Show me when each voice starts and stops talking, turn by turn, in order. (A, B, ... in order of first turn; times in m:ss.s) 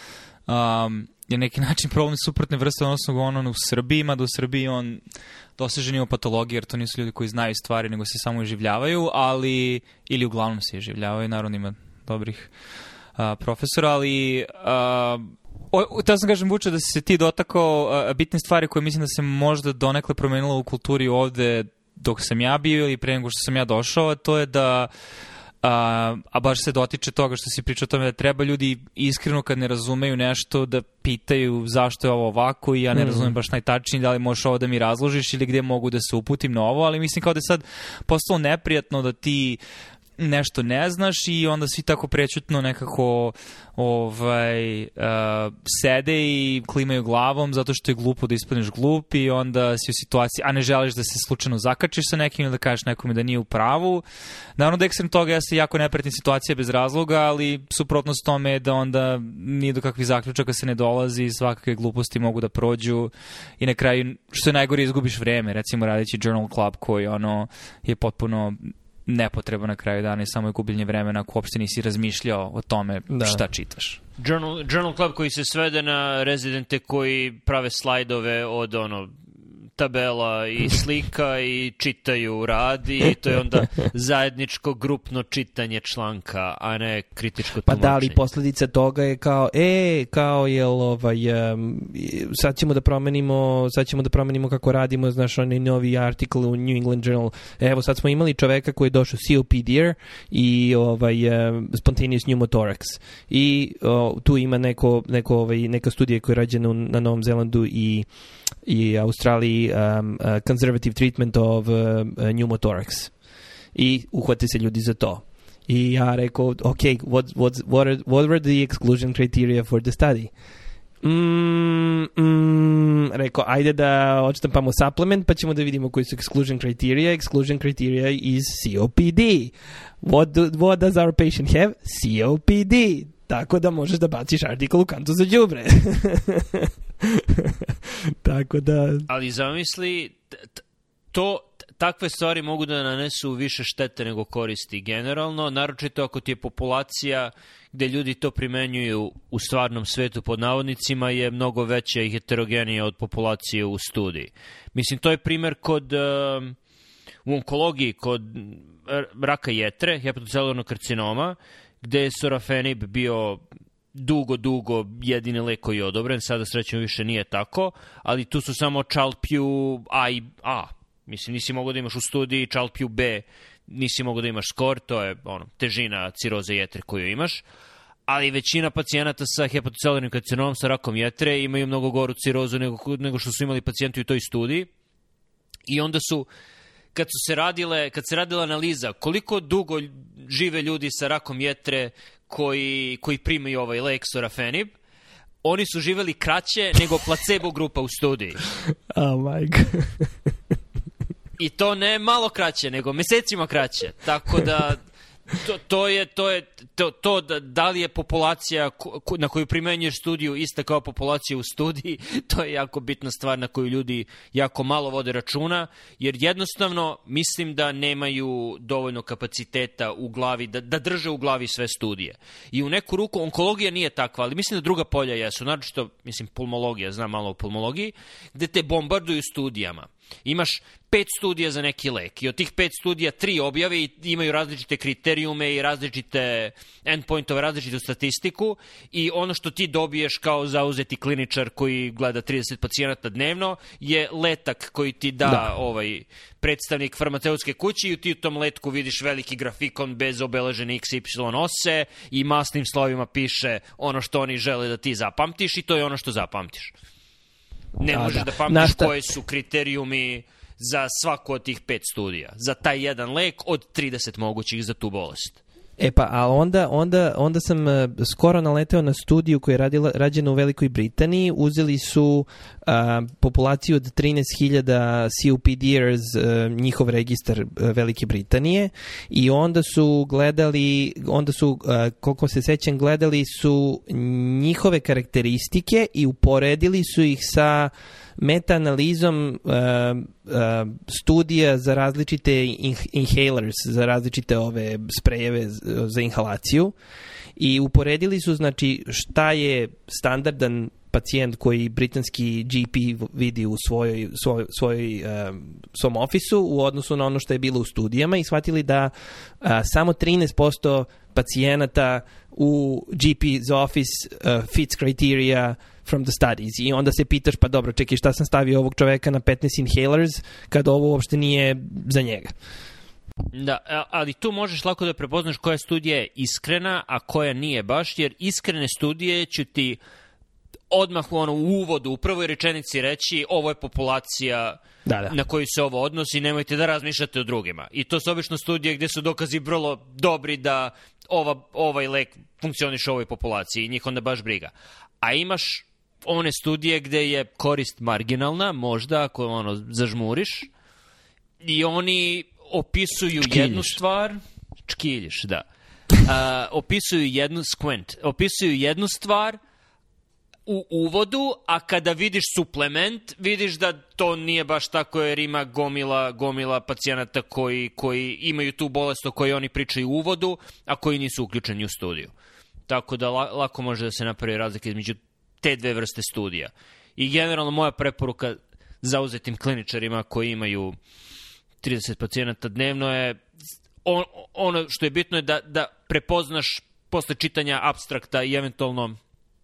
0:00.5-0:05.0 A
0:05.6-0:12.5 A
0:13.2-0:24.9 A
0:25.6-0:39.6 A
0:32.9-0:33.3 B
0:40.2-0:54.0 A
0:54.6-1:14.0 A
1:13.1-1:13.4 B
1:14.2-1:19.1 C
1:19.8-1:28.2 C
1:27.6-1:48.0 B
1:48.6-1:53.1 B
1:53.7-2:00.3 B
2:01.0-2:19.1 B
2:19.1-2:20.6 C
2:21.1-2:36.6 C
2:37.2-2:43.4 C
2:43.9-2:57.4 C
2:58.1-3:04.7 C
3:05.7-3:06.3 C
3:06.9-3:14.7 C
3:15.4-3:18.4 C
3:18.9-3:20.1 B
3:21.4-4:16.7 C
4:17.8-4:25.4 C
4:17.9-4:18.9 B
4:25.8-4:56.7 B
4:57.4-5:22.3 B
5:23.3-5:29.8 C
5:30.7-5:50.5 C
5:34.8-5:35.1 B
5:51.4-5:55.4 C
5:53.3-5:53.7 B
5:56.0-5:59.4 C
6:00.5-6:12.1 C
6:12.7-6:20.8 C
6:21.6-6:23.2 C
6:23.8-6:29.0 C